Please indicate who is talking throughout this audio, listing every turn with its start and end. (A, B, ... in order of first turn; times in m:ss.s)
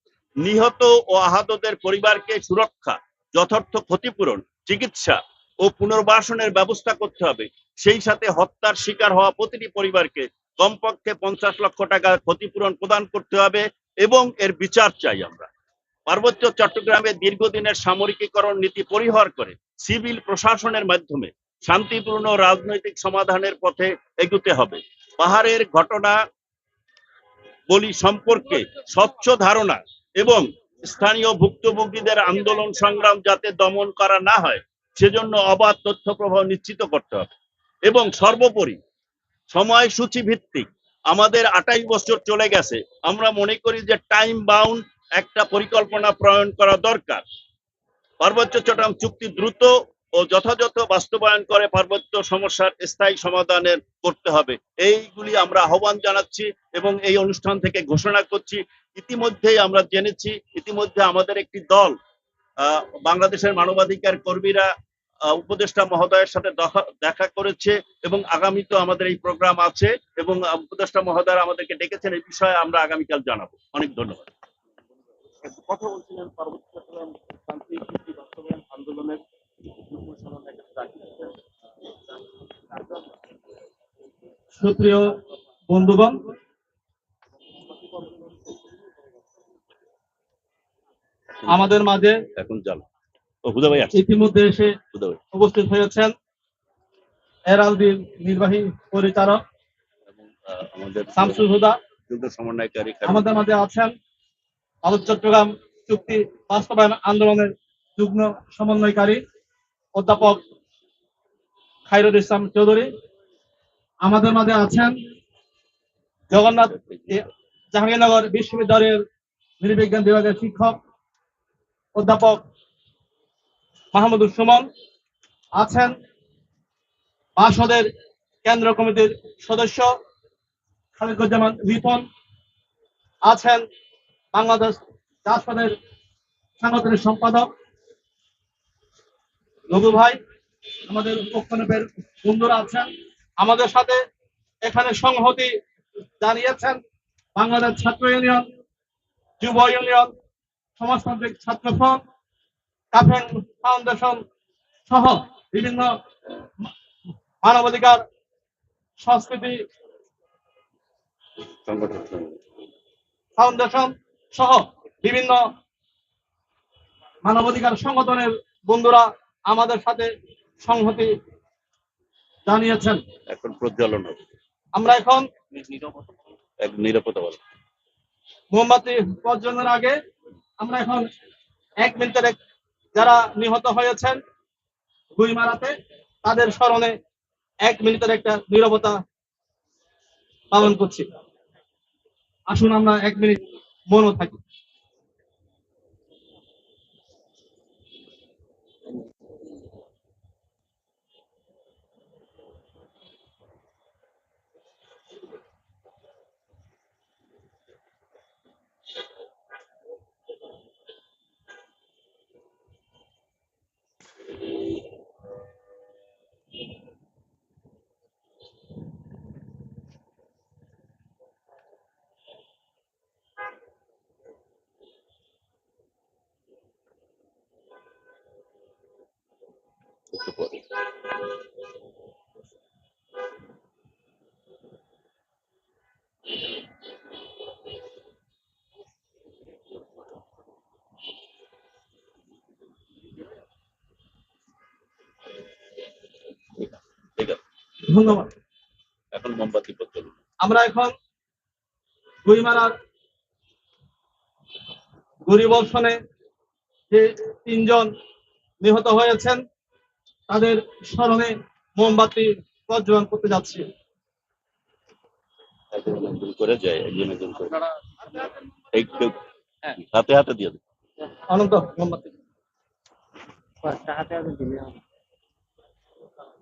0:00.4-0:15.5 A
0:16.1-0:26.2 A
0:27.7-0:37.3 A
0:37.9-0:38.8 A
0:39.5-0:47.2 A
0:48.2-1:02.0 A
1:02.6-1:04.7 A
1:05.4-1:14.3 A
1:15.4-1:19.2 B
1:19.9-1:21.3 B
1:24.6-1:25.1 C
1:25.7-1:26.2 C
1:27.9-1:28.3 B
1:31.5-1:32.2 C
1:32.4-1:32.8 A
1:33.4-1:34.0 A
1:33.9-1:34.8 C
1:34.9-1:35.2 A
1:35.3-1:36.1 C
1:37.5-1:39.4 C
1:40.6-1:41.5 A
1:41.2-1:41.8 C
1:42.1-1:43.4 A
1:43.0-1:43.9 C
1:44.8-1:49.2 C
1:49.9-1:50.4 C
1:51.9-1:52.9 C
1:54.0-1:55.0 C
1:56.3-1:59.0 C
1:59.6-2:00.8 C
2:02.0-2:02.4 C
2:03.9-2:04.7 C
2:05.6-2:05.9 C
2:07.4-2:07.9 C
2:08.4-2:09.9 C
2:11.0-2:12.0 C
2:13.2-2:13.6 C
2:14.3-2:15.7 C
2:16.6-2:17.5 C
2:19.7-2:20.2 C
2:20.9-2:22.9 C
2:23.4-2:24.0 C
2:24.6-2:25.5 C
2:26.2-2:26.8 C
2:27.4-2:28.5 C
2:29.4-2:30.1 C
2:30.8-2:32.0 C
2:32.9-2:34.2 C
2:34.9-2:35.9 C
2:37.4-2:38.0 C
2:39.0-2:39.6 C
2:41.7-2:42.4 A
2:43.4-2:45.4 C
2:47.2-2:51.1 C
2:52.5-2:53.0 C
2:53.3-2:54.2 A
2:54.7-2:55.3 C
2:55.6-2:56.0 B
2:56.6-2:57.4 A
2:58.5-3:00.0 C
3:00.6-3:01.1 C
3:01.8-3:02.4 C
3:02.9-3:04.2 C
3:05.2-3:07.0 C
3:07.6-3:09.0 C
3:10.5-3:11.1 C
3:12.5-3:14.4 C
3:50.1-3:50.6 A
4:06.6-4:07.4 A
4:07.9-4:08.3 C
4:09.1-4:10.1 A
4:10.4-4:10.9 C
4:12.2-4:12.7 C
4:15.3-4:16.0 C
4:16.9-4:17.9 C
4:18.6-4:19.4 C
4:20.3-4:23.6 C
4:25.7-4:27.6 A
4:28.7-4:29.2 A
4:29.7-4:30.6 A
4:31.3-4:32.1 C
4:33.6-4:34.8 B